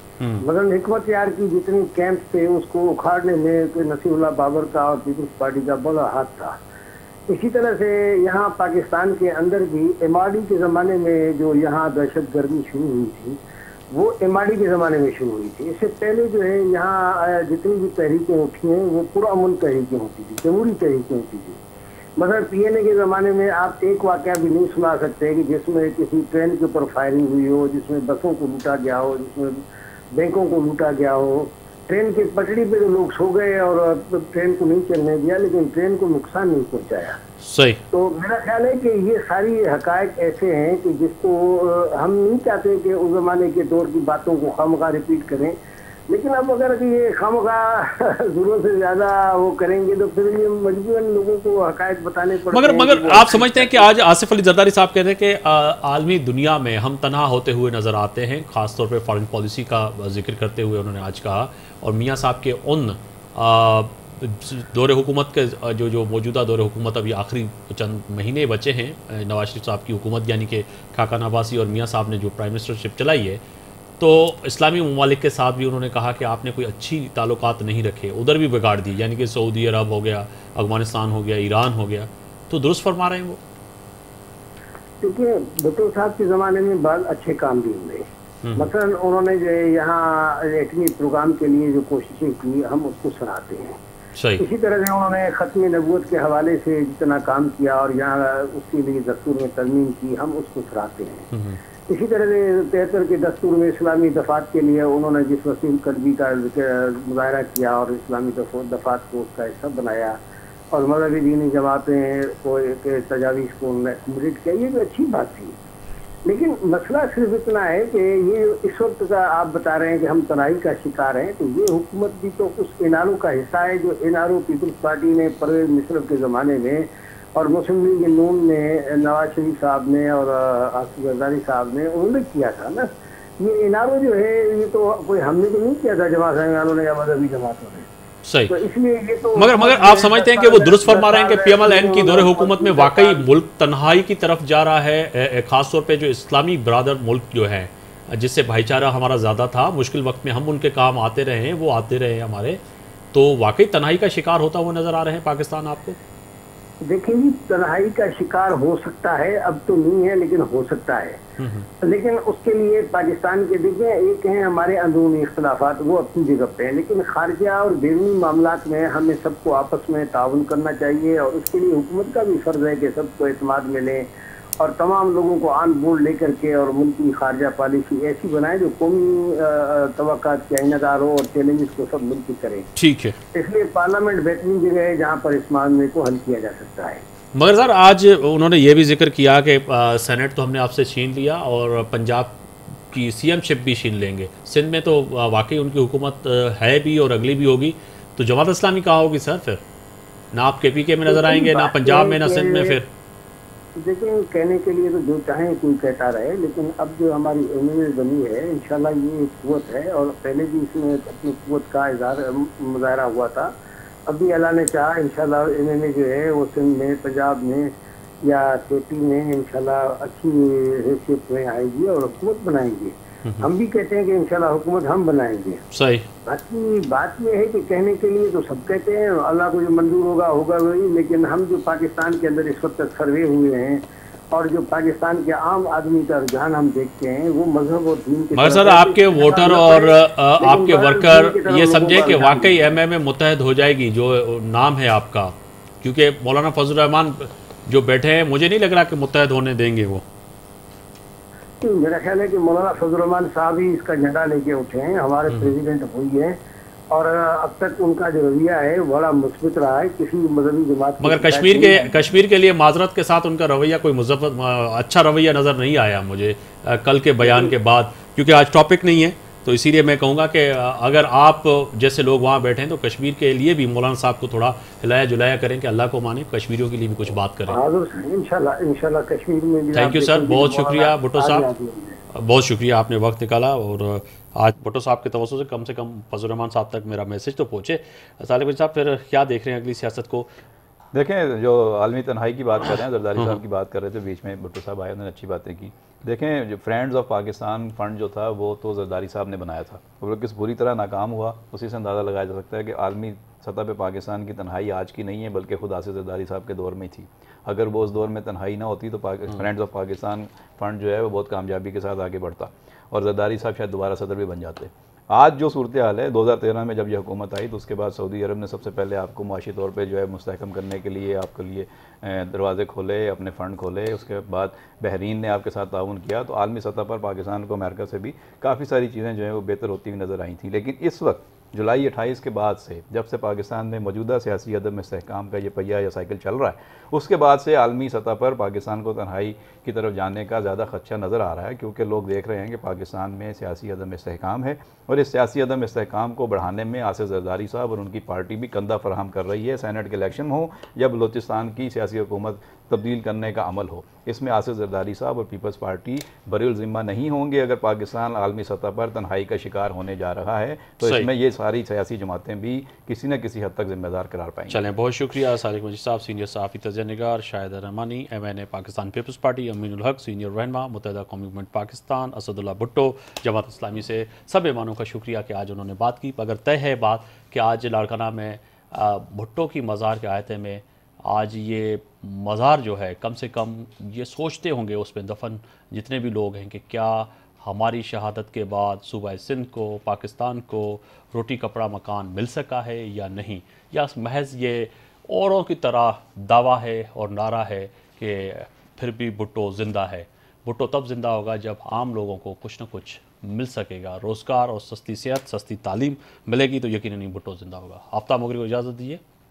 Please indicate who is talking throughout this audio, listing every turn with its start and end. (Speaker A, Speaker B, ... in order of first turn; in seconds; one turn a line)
Speaker A: 0.4-6.6
Speaker A: 7.3-13.4
Speaker A: 13.9-21.6
Speaker A: 22.2-37.2
Speaker B: 37.4-37.8
Speaker A: 37.9-45.5
Speaker A: 46.1-53.9
Speaker B: 52.5-73.4
Speaker B: 74.0-83.4
Speaker A: 85.0-93.8
Speaker B: 88.4-88.7
Speaker B: 94.2-94.4
Speaker A: 94.4-101.3
Speaker B: 101.3-101.6
Speaker A: 101.9-110.2
Speaker A: 110.7-115.5
Speaker A: 116.2-137.9
Speaker B: 138.2-138.6
Speaker A: 138.5-143.3
Speaker B: 139.3-152.6
Speaker B: 153.1-156.0
Speaker A: 156.8-161.2
Speaker B: 161.4-161.7
Speaker A: 161.8-174.1
Speaker A: 174.6-182.7
Speaker B: 182.8-183.2
Speaker A: 183.3-187.0
Speaker B: 187.3-192.3
Speaker B: 192.9-199.6
Speaker B: 200.3-202.9
Speaker A: 201.1-202.8
Speaker A: 203.8-213.5
Speaker A: 214.1-225.6
Speaker B: 225.7-226.1
Speaker A: 226.2-242.7
Speaker B: 238.3-250.0
Speaker A: 251.6-256.4
Speaker B: 255.3-255.6
Speaker A: 256.9-262.0
Speaker B: 261.0-277.6
Speaker A: 267.2-267.5
Speaker A: 277.5-282.0
Speaker B: 279.7-281.5
Speaker B: 282.1-290.3
Speaker C: 290.9-364.6
Speaker B: 360.8-361.1
Speaker B: 364.5-409.0